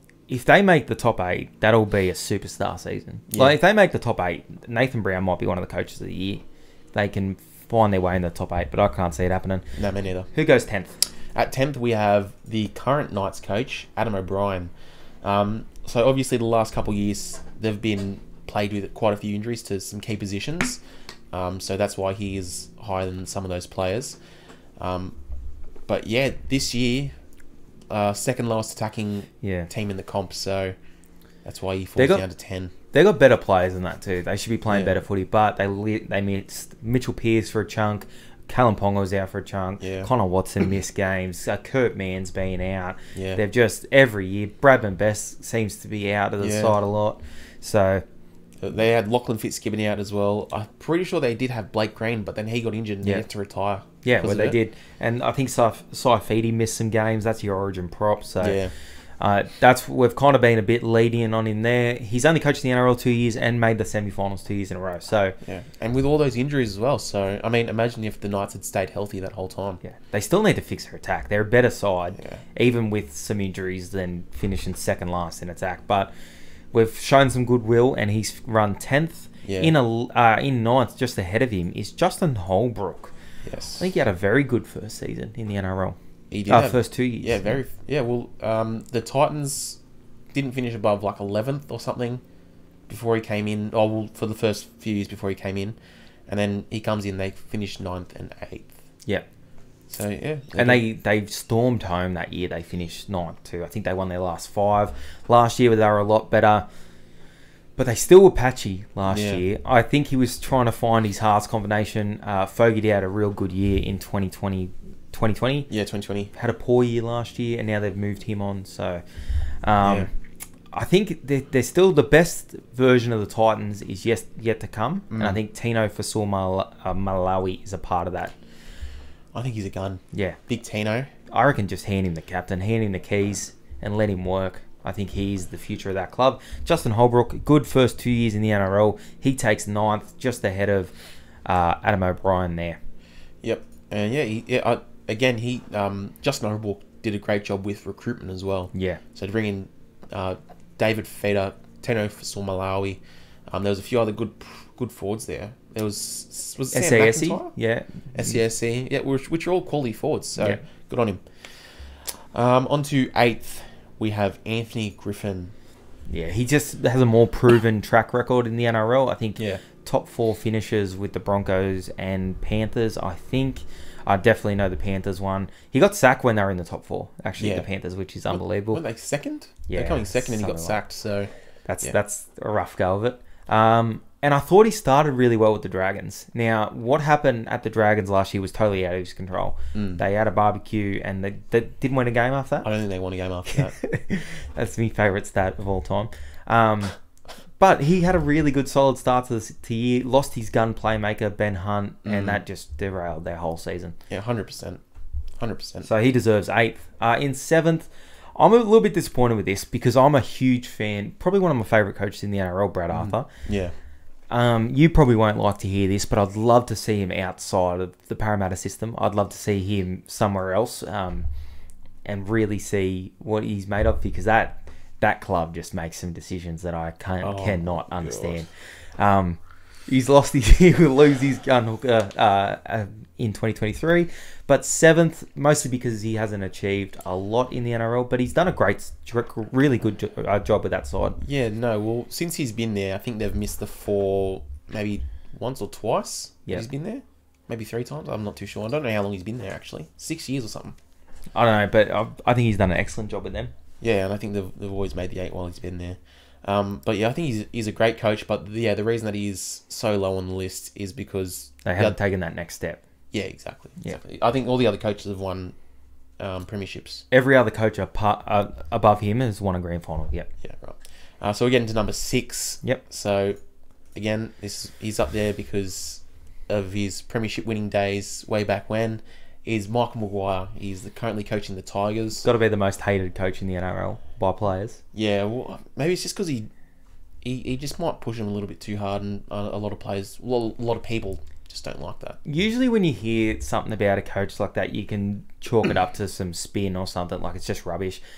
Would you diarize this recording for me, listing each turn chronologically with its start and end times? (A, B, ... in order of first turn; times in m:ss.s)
0:00.3-0:09.7 A
0:03.3-0:03.6 B
0:09.8-0:10.3 B
0:10.3-0:11.0 A
0:11.3-0:14.7 B
0:15.2-0:20.8 B
0:21.3-0:24.2 B
0:24.8-0:25.2 B
0:25.9-0:27.1 B
0:27.9-0:30.7 B
0:29.4-0:29.7 A
0:31.4-0:32.7 B
0:32.0-0:32.3 A
0:32.9-0:48.0 A
0:34.7-0:34.9 B
0:39.8-0:40.1 B
0:43.1-0:43.4 B
0:46.4-0:46.8 B
0:48.6-0:54.6 B
0:54.0-0:58.6 A
0:58.4-0:58.7 B
0:59.2-1:05.4 A
1:05.4-1:09.8 B
1:09.8-1:16.1 A
1:12.2-1:12.4 B
1:16.7-1:23.1 A
1:19.4-1:19.7 B
1:23.4-1:23.8 B
1:23.8-1:27.6 A
1:26.3-1:29.8 B
1:30.3-1:32.2 B
1:32.9-1:35.8 B
1:36.3-1:38.7 B
1:39.9-1:40.8 B
1:40.6-1:46.7 A
1:47.8-1:55.7 A
1:49.1-1:49.4 B
1:55.7-1:56.3 B
1:56.3-1:59.0 A
1:59.6-2:00.1 A
1:59.8-2:00.1 B
2:00.7-2:08.4 A
2:05.1-2:05.4 B
2:09.3-2:11.1 B
2:10.1-2:10.4 A
2:11.3-2:20.9 A
2:21.4-2:22.8 A
2:23.4-2:37.5 B
2:28.7-2:29.0 A
2:36.7-2:38.4 A
2:38.1-2:45.5 B
2:46.1-2:58.8 A
2:49.4-2:49.6 B
2:57.4-2:57.7 B
2:58.3-3:01.3 B
2:59.7-3:00.8 A
3:01.7-3:12.7 A
3:09.7-3:10.0 B
3:12.6-3:13.8 B
3:13.5-3:17.0 A
3:17.6-3:24.0 A
3:22.0-3:22.4 B
3:24.1-3:24.8 B
3:25.4-3:25.9 B
3:25.8-3:33.3 A
3:32.9-3:33.7 B
3:34.3-3:41.3 A
3:42.0-4:01.2 A
3:47.2-3:48.4 B
4:01.2-4:10.8 B
4:11.3-4:13.5 A
4:13.8-4:22.0 B
4:21.6-4:22.8 A
4:23.1-4:25.5 B
4:26.2-4:27.0 B
4:27.1-4:30.3 A
4:30.4-4:33.4 B
4:33.9-4:42.2 B
4:42.2-4:44.8 A
4:44.9-4:46.5 B
4:47.2-4:52.2 B
4:52.2-4:58.0 A